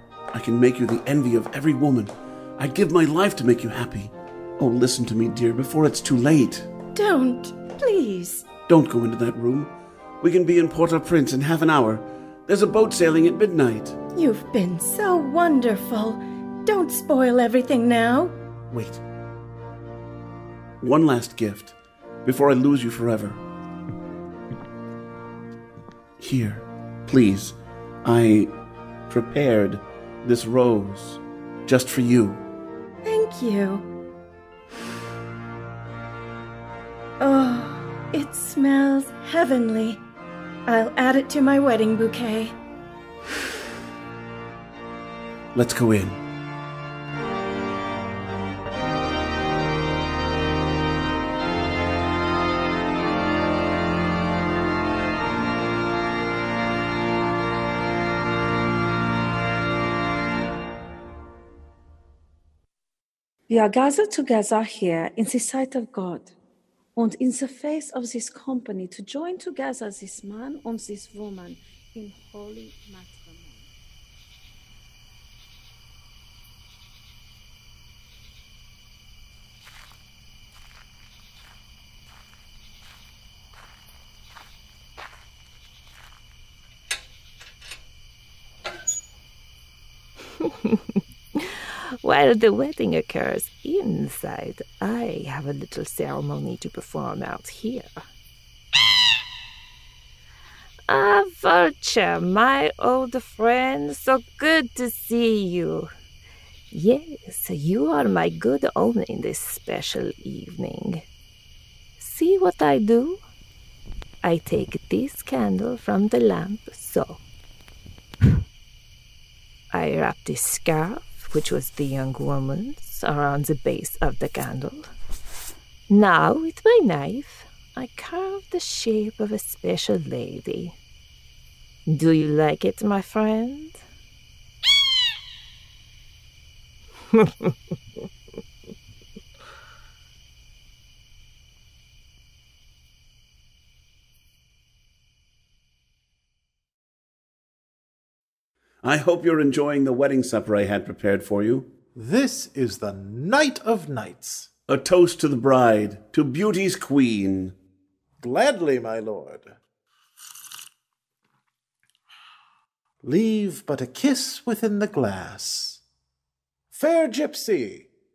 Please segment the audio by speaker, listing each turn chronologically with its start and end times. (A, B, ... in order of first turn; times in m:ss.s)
0:00.3-0:06.7 A
0:06.9-0:08.4 B
0:08.7-0:14.0 A
0:14.2-0:18.3 B
0:18.7-0:19.0 C
0:20.8-0:23.4 A
0:26.2-0:28.5 A
0:29.1-0:32.4 A
0:33.0-0:33.8 B
0:37.2-0:40.0 B
0:40.7-0:42.5 B
0:45.5-0:46.2 A
1:03.5-1:06.3 D
1:07.0-1:13.7 D
1:30.4-1:38.0 E
1:40.9-1:45.9 E
1:46.7-1:51.0 E
1:52.0-1:53.2 E
1:54.2-1:57.2 E
1:59.7-2:04.9 E
2:05.9-2:10.8 E
2:11.9-2:13.8 E
2:17.1-2:17.5 E
2:28.8-2:31.7 A
2:32.0-2:34.5 C
2:34.7-2:37.5 A
2:38.2-2:39.6 C
2:43.0-2:45.8 C
2:46.7-2:47.9 C